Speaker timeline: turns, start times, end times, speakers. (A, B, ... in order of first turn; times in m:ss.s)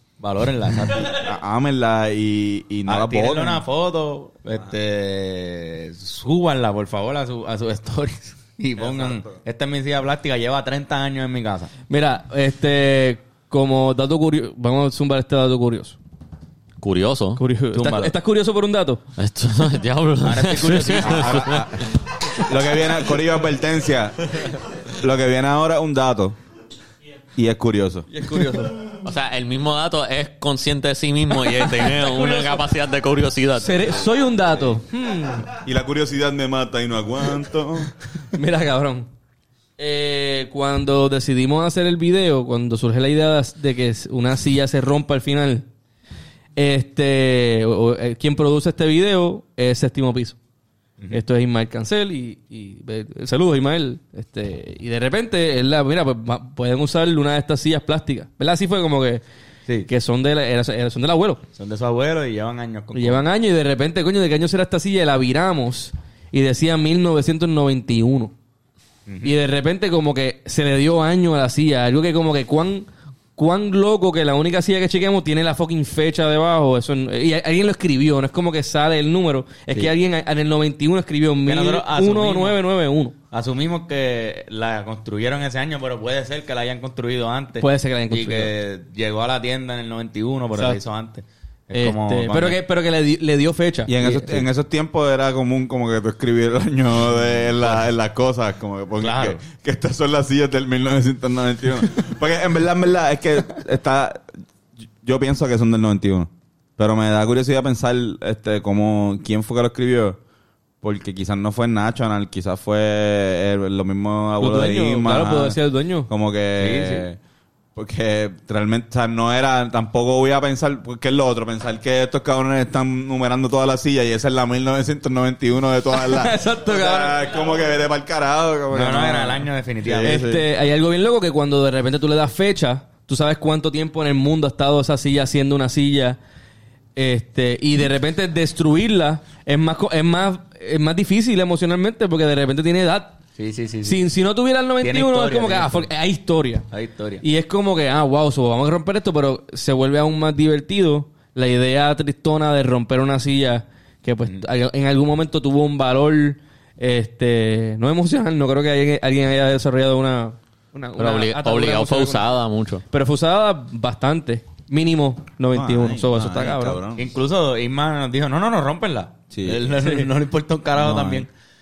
0:00.2-0:01.2 A
0:00.9-0:03.6 B
0:02.9-0:11.7 A
0:08.8-0:09.4 B
0:11.9-0:16.0 C
0:16.8-0:17.4 D
0:17.4-0:19.0 C
0:17.7-0:18.2 A
0:19.2-0:21.8 D
0:20.2-0:21.6 A
0:21.1-0:26.4 B
0:27.4-0:28.1 B
0:28.1-0:28.8 C
0:28.9-0:34.1 D
0:32.0-0:32.6 C
0:33.6-0:35.6 C
0:35.6-0:37.9 B
0:38.3-0:39.1 C
0:39.8-0:45.7 C
0:46.6-0:50.4 C
0:51.1-0:59.2 C
0:59.9-1:01.4 C
1:01.6-1:03.2 A
1:02.9-1:08.4 C
1:09.1-1:09.4 A
1:09.2-1:23.2 C
1:21.5-1:22.6 A
1:23.3-1:32.6 A
1:27.6-1:28.5 C
1:30.6-1:30.8 C
1:31.8-1:34.3 C
1:33.9-1:44.4 B
1:39.0-1:39.4 A
1:45.0-1:50.2 B
1:50.8-1:57.2 B
1:54.4-1:56.1 C
1:56.6-1:57.1 A
1:57.8-2:10.4 B
2:05.9-2:07.3 C
2:08.7-2:10.2 A
2:10.0-2:16.2 C
2:17.0-2:23.2 C
2:23.4-2:24.1 A
2:23.8-2:26.7 C
2:24.8-2:25.9 A
2:26.7-2:27.2 A
2:27.2-2:42.4 C
2:41.0-2:42.8 D
2:42.9-2:46.8 C
2:45.5-2:47.1 B
2:47.0-2:51.3 A
2:49.3-2:49.7 B
2:49.8-2:50.1 C
2:50.8-2:51.3 B